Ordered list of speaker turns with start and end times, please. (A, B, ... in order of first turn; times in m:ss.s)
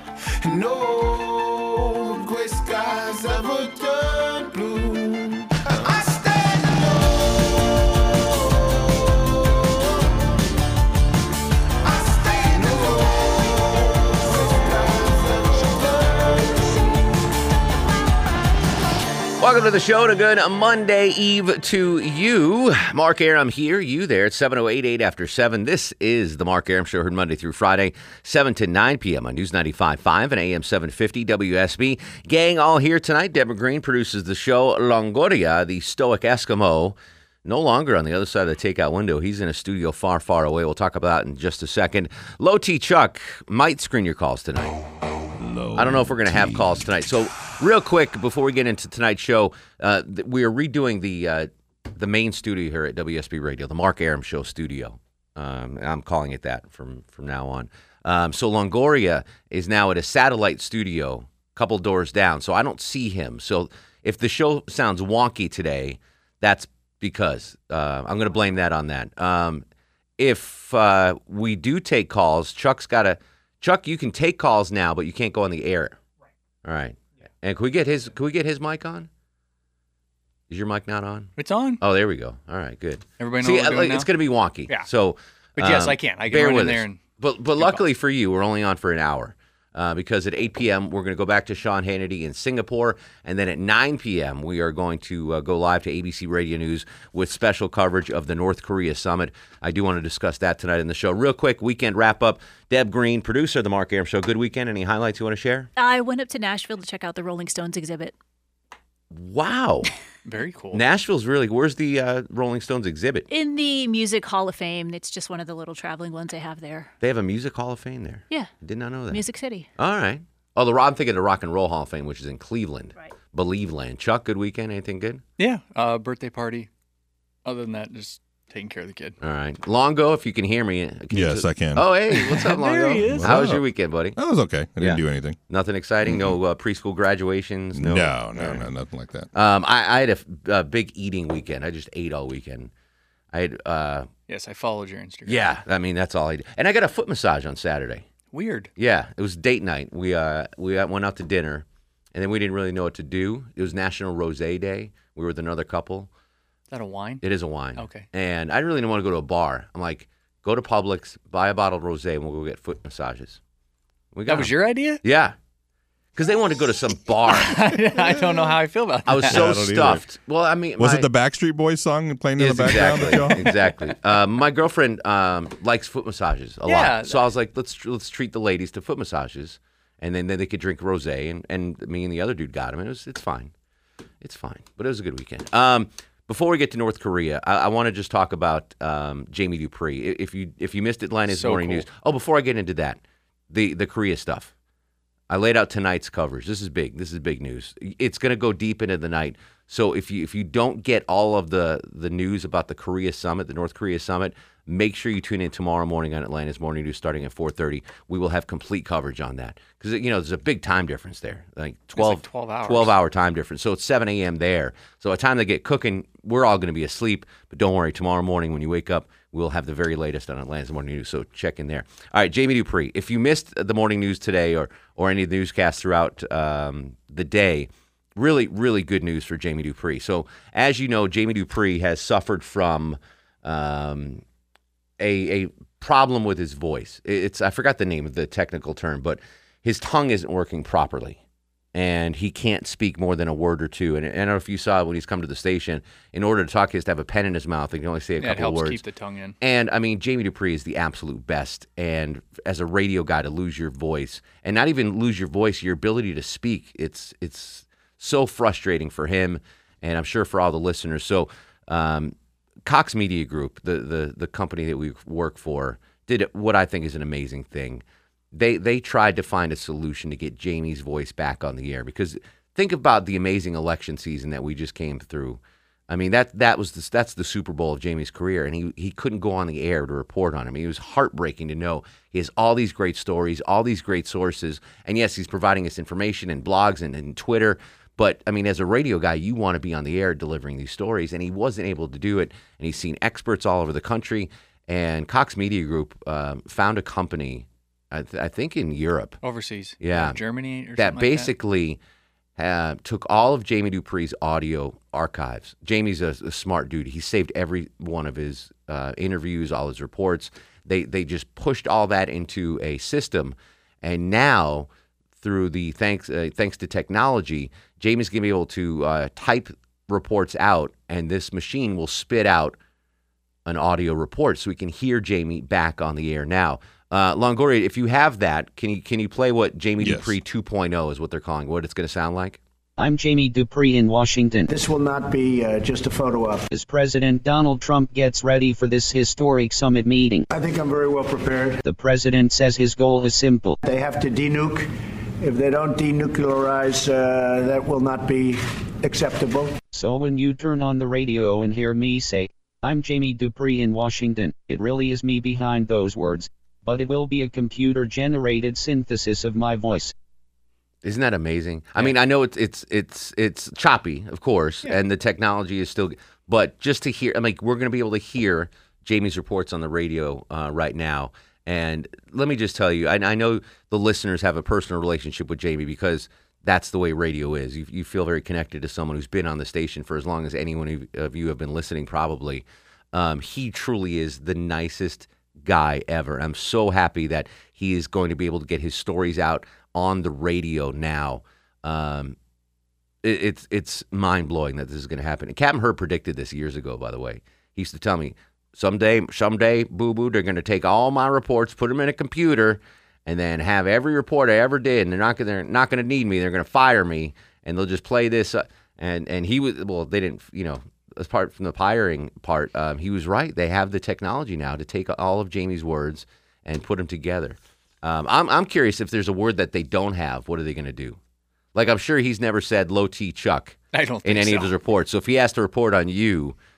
0:00.4-0:10.1 A
0:11.8-0:16.9 A
0:19.4-0:44.8 B
0:45.4-0:46.6 C
0:45.8-1:09.6 B
1:10.2-1:16.0 B
1:16.6-1:19.1 B
1:20.5-1:45.7 B
1:21.4-1:21.8 D
1:23.2-1:24.1 D
1:25.6-1:27.0 D
1:27.6-1:27.8 D
1:45.8-1:48.2 E
1:49.1-1:49.9 B
1:50.2-1:50.8 D
1:50.7-1:53.3 B
1:53.3-1:56.9 E
1:57.0-1:59.2 B
1:59.1-1:59.7 E
1:59.8-2:05.2 B
2:05.4-2:06.7 D
2:07.4-2:09.2 D
2:09.2-2:14.2 B
2:11.1-2:11.8 C
2:12.1-2:13.3 D
2:13.1-2:13.6 C
2:14.2-2:15.4 C
2:14.8-2:18.6 B
2:16.1-2:16.3 C
2:17.8-2:19.3 C
2:19.3-2:22.7 B
2:23.3-2:24.1 B
2:24.3-2:25.4 D
2:25.3-2:28.1 B
2:28.3-2:28.7 D
2:28.8-2:36.1 B
2:36.7-2:37.2 D
2:37.2-2:43.4 B
2:37.8-2:38.1 D
2:44.1-2:45.4 B
2:44.3-2:45.0 D
2:46.2-2:47.8 B
2:47.3-2:49.5 D
2:49.1-2:51.1 B
2:49.3-2:50.0 C
2:50.8-2:53.5 C
2:52.4-3:03.5 B
2:56.7-2:57.2 D
3:04.2-3:13.0 B
3:11.3-3:11.9 D
3:13.5-3:14.5 B
3:15.3-3:54.2 B
3:32.0-3:33.0 D
3:55.0-4:01.2 B
4:01.7-4:08.8 B
4:08.2-4:09.4 D
4:09.4-4:22.2 B
4:22.7-4:59.2 B
4:59.2-5:01.3 D
4:59.8-5:00.2 B
5:00.7-5:01.8 B
5:02.4-5:14.7 B
5:15.2-5:22.6 B
5:23.5-5:32.4 B
5:29.8-5:30.2 C
5:32.8-5:34.5 F
5:34.5-5:36.5 G
5:36.5-5:40.3 F
5:40.3-5:41.6 G
5:41.6-5:43.6 F
5:43.6-5:49.6 G
5:49.7-5:59.9 F
6:00.8-6:32.2 B
6:33.0-7:01.0 B
7:01.5-7:06.4 B
7:03.7-7:04.5 D